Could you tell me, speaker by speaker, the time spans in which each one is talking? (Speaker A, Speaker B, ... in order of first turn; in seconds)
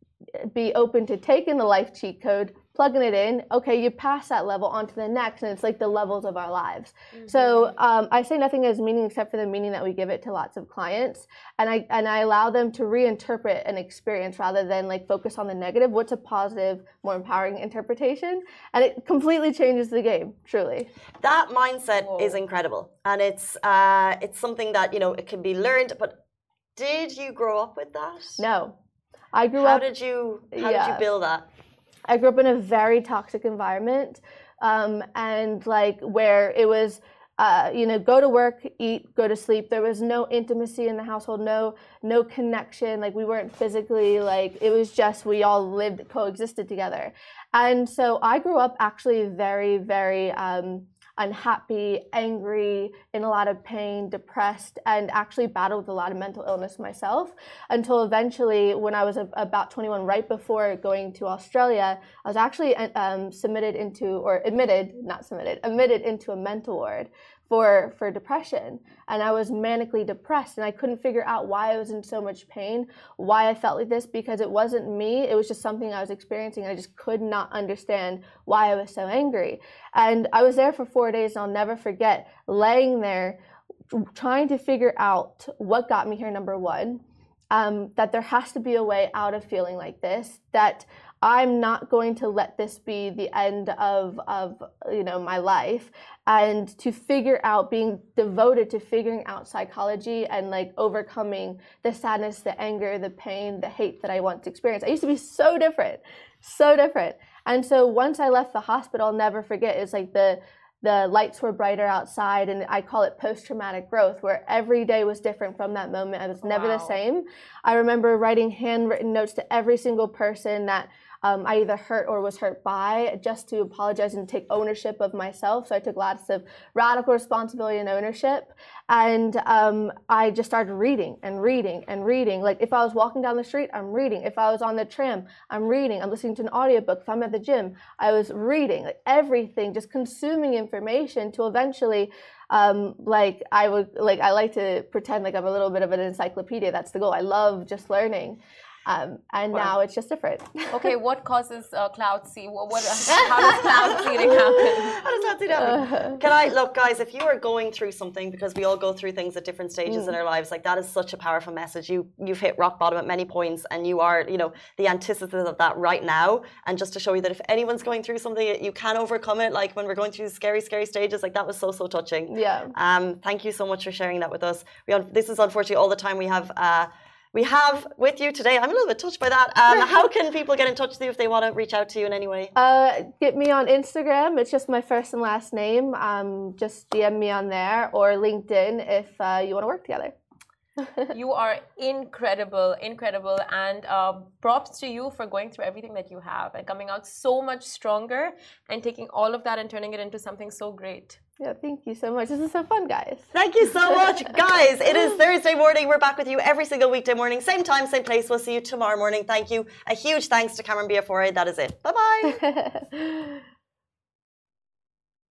Speaker A: 0.4-20.9, 28.4-28.7, 29.3-29.8, 30.5-31.1, 32.1-83.4, 83.9-150.9, 153.1-153.7, 155.6-156.2, 159.9-160.1, 172.3-172.7, 182.5-190.1, 190.8-191.1, 201.4-203.3, 203.8-204.1, 212.3-213.3
Speaker B: 7.1-7.7, 22.0-22.4, 116.4-117.0, 150.7-155.0, 191.1-201.2
Speaker C: 21.2-26.2, 26.8-28.4, 29.6-31.5, 153.6-182.5, 203.3-212.4